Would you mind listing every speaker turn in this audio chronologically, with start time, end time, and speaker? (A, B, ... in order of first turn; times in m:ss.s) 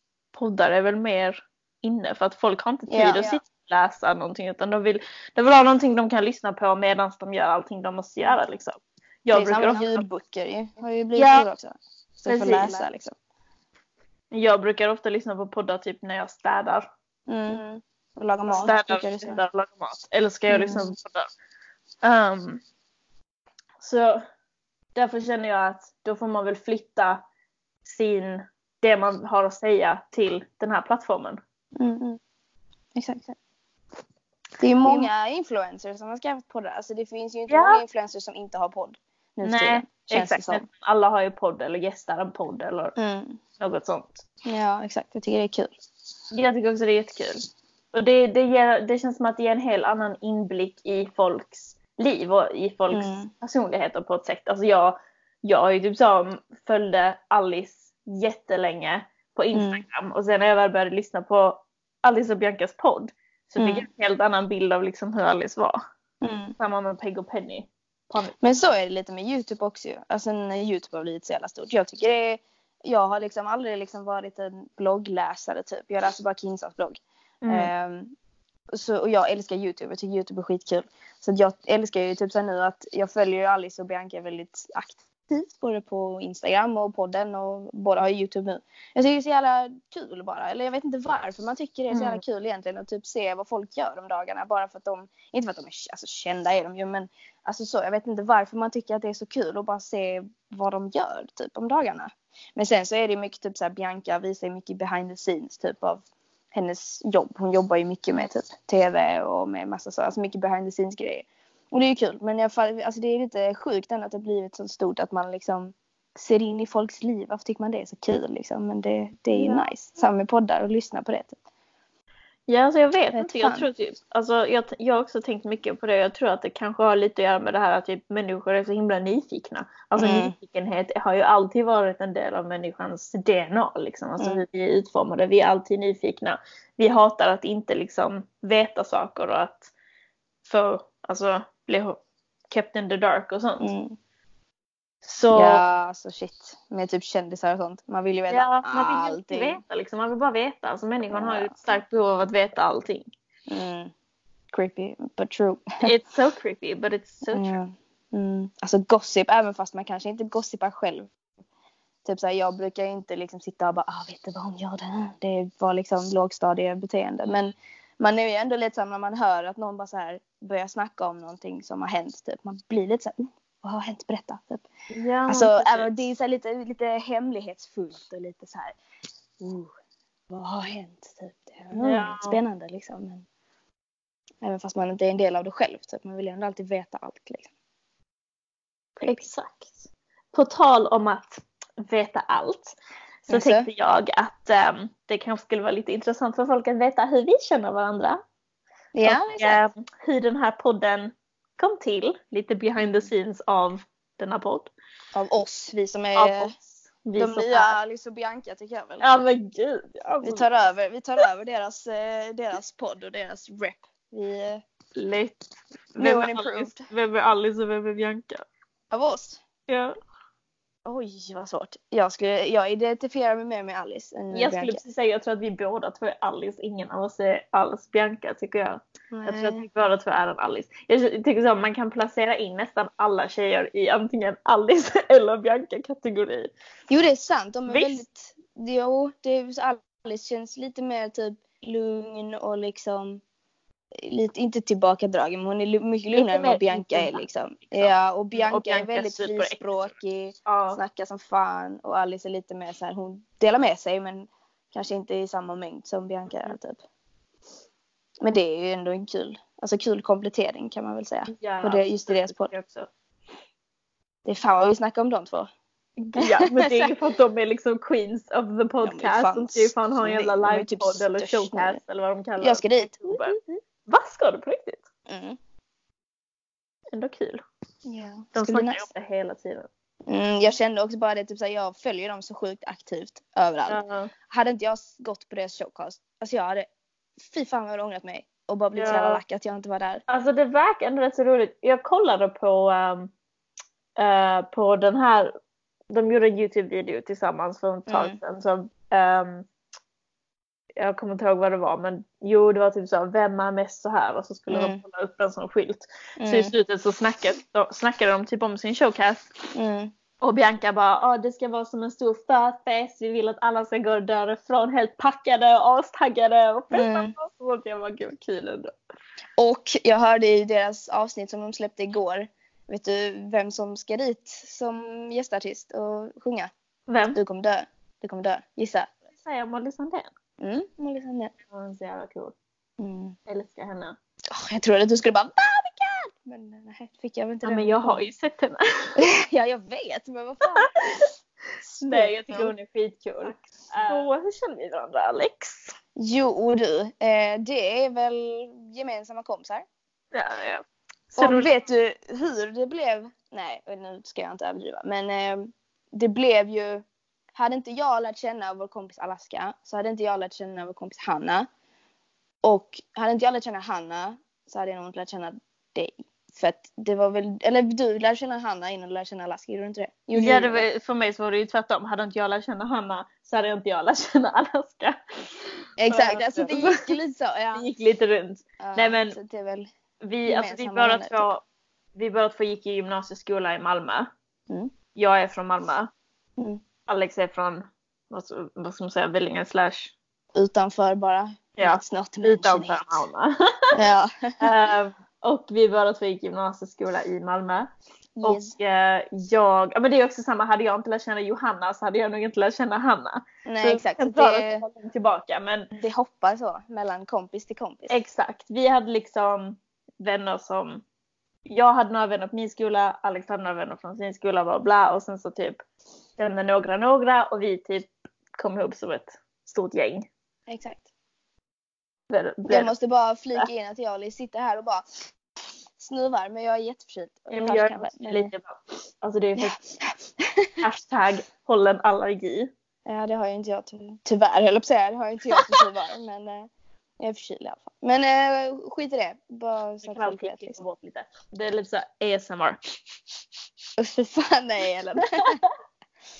0:00.3-0:10.0 A
0:02.9-0:03.4 B
0:09.3-0:13.1 B
0:11.2-0:11.5 A
0:12.3-0:12.8 A
0:14.3-0:16.9 A
0:17.3-0:19.4 B
0:18.5-0:21.3 A
0:20.5-0:20.9 B
0:22.0-0:22.6 A
0:23.8-0:24.2 A
0:25.0-0:27.2 A
0:27.8-0:31.4 A
0:31.8-0:32.2 B
0:33.0-0:33.4 B
0:34.6-0:40.6 B
0:34.8-0:35.1 A
0:37.5-0:37.8 A
0:39.4-0:43.0 A
0:43.0-0:43.4 B
0:43.6-0:44.2 A
0:44.4-0:45.7 B
0:46.3-1:05.8 A
0:52.9-0:53.3 B
0:59.5-0:59.8 B
1:03.6-1:03.9 B
1:06.2-1:06.6 B
1:06.6-1:08.4 A
1:08.4-1:18.1 B
1:17.4-1:17.7 A
1:18.7-2:01.4 B
1:31.9-1:32.2 A
1:59.3-2:00.0 A
2:02.5-2:19.7 A
2:03.1-2:03.7 B
2:10.0-2:10.3 B
2:20.4-2:22.0 A
2:22.5-2:23.7 A
2:23.6-2:24.0 B
2:25.0-2:25.6 A
2:25.3-2:29.6 B
2:28.3-2:33.1 A
2:31.1-2:31.6 B
2:33.5-2:33.9 B
2:34.5-2:35.8 B
2:35.8-2:37.6 A
2:37.3-2:41.1 B
2:42.0-2:54.7 B
2:54.9-2:55.9 A
2:55.3-2:58.8 B
2:59.4-2:59.7 B
3:00.3-3:03.3 B
3:01.7-3:02.4 A
3:04.4-3:07.5 B
3:09.0-3:12.8 A
3:13.3-3:18.2 A
3:13.3-3:13.7 B
3:19.0-3:19.6 B
3:19.0-3:24.7 A
3:22.8-3:23.1 B
3:25.1-3:26.5 B
3:26.2-3:26.5 A
3:27.0-3:27.8 A
3:27.2-3:29.1 B
3:29.0-3:30.5 A
3:30.2-3:34.6 B
3:35.0-3:35.4 A
3:36.0-3:36.9 B
3:36.0-3:38.4 A
3:38.9-3:39.4 B
3:39.7-3:40.0 A
3:40.8-3:44.8 B
3:44.3-3:56.5 A
3:49.1-3:49.6 B
3:56.9-4:03.2 B
3:57.7-3:58.0 A
4:03.9-4:16.8 B
4:06.1-4:09.9 A
4:10.5-4:10.8 A
4:18.2-4:22.5 B
4:21.3-4:22.9 A
4:24.3-4:25.5 B
4:26.0-4:34.9 A
4:26.2-4:26.9 B
4:28.8-4:31.8 B
4:32.4-4:33.3 B
4:35.1-4:35.4 B
4:36.9-4:37.4 A
4:37.9-4:38.9 B
4:38.3-4:39.7 A
4:40.1-4:46.7 B
4:43.7-4:44.1 A
4:47.2-4:50.0 B
4:48.8-4:49.2 A
4:50.1-4:53.1 A
4:54.0-4:55.3 A
4:55.9-4:59.5 A
4:57.9-4:58.2 B
5:00.8-5:09.5 A
5:04.5-5:04.8 B
5:06.2-5:06.5 B
5:09.5-5:09.9 B
5:10.2-5:18.7 A
5:16.7-5:17.2 B
5:19.4-5:26.5 B
5:26.9-5:27.2 A
5:27.1-5:28.9 B
5:29.2-5:30.1 A
5:30.4-5:31.3 B
5:31.5-5:32.4 A
5:32.8-5:33.2 B
5:33.3-5:34.0 A
5:34.3-5:38.0 B
5:37.4-5:39.0 A
5:39.0-5:41.0 B
5:40.6-5:41.1 A
5:41.7-5:45.8 A
5:41.8-5:42.5 B
5:43.2-5:44.1 B
5:46.0-5:49.6 B
5:50.1-5:51.6 A
5:51.2-6:01.5 B
6:02.4-6:10.7 B
6:10.1-6:15.0 A
6:15.8-6:17.7 B
6:15.9-6:16.9 A
6:17.5-6:19.2 A
6:18.6-6:19.7 B
6:20.0-6:21.4 A
6:20.3-6:21.3 B
6:22.0-6:24.1 A
6:25.0-6:25.9 A
6:26.9-6:29.9 A
6:30.4-6:33.0 B
6:31.6-6:33.3 A
6:33.7-6:34.4 B
6:34.4-6:37.7 A
6:38.2-6:38.6 B
6:38.2-6:45.7 A
6:43.4-6:44.6 B
6:45.7-6:48.0 B
6:47.9-6:50.8 A
6:51.5-6:55.6 A
6:56.2-7:00.1 A
7:00.5-7:00.9 B
7:02.1-7:02.7 A
7:02.5-7:04.8 B
7:05.8-7:08.3 B
7:07.3-7:09.6 A
7:09.4-7:10.6 B
7:10.6-7:12.5 A
7:12.9-7:20.6 B
7:19.8-7:22.6 A
7:23.8-7:25.4 B
7:25.2-7:25.5 A